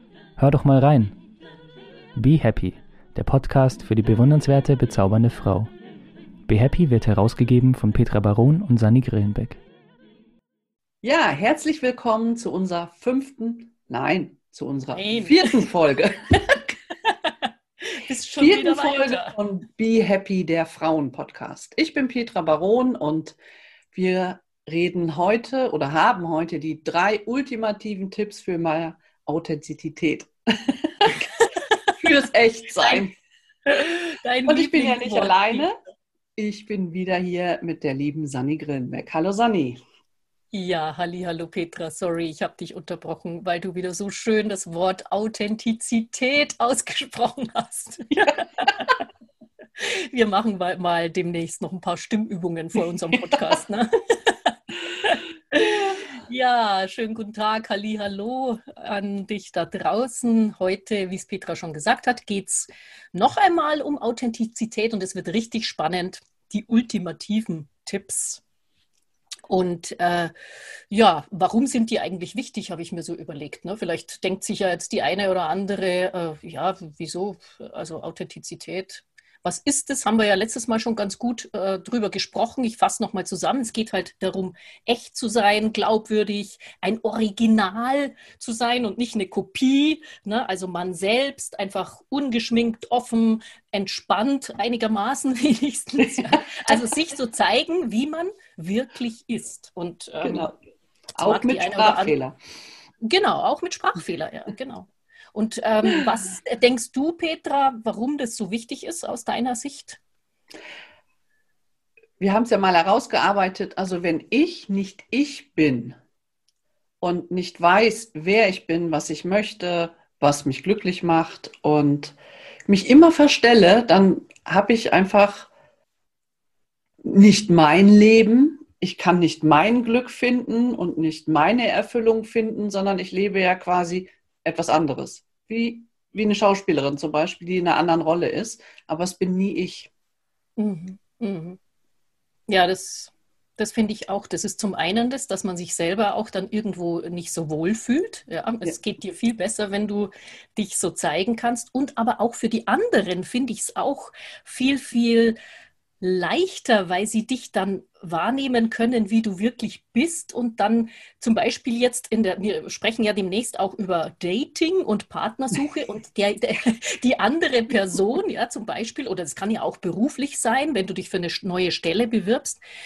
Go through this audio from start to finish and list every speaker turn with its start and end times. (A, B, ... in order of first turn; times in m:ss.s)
0:00.4-0:01.2 A
0:02.2-0:05.7 A
0:06.5-0:09.6 A
0:11.0-0:16.6 B
0:14.9-0:15.7 C
0:17.1-0:19.4 C
0:18.4-0:23.4 B
0:23.9-0:31.2 B
0:31.0-0:31.9 C
0:32.0-0:33.1 B
0:32.8-0:33.1 C
0:33.7-0:35.7 C
0:34.5-0:35.8 B
0:36.4-0:39.8 B
0:40.5-0:49.0 C
0:49.8-0:54.4 C
0:55.0-1:08.4 C
1:09.5-1:10.3 C
1:10.9-1:40.5 C
1:36.0-1:36.8 B
1:40.2-1:40.6 B
1:41.2-1:42.2 C
1:41.2-1:42.4 B
1:43.0-1:50.0 C
1:52.2-1:56.0 B
1:57.0-2:02.2 B
2:02.7-2:05.5 B
2:07.0-2:19.9 B
2:20.6-2:21.6 C
2:22.5-2:35.4 C
2:36.0-2:52.6 C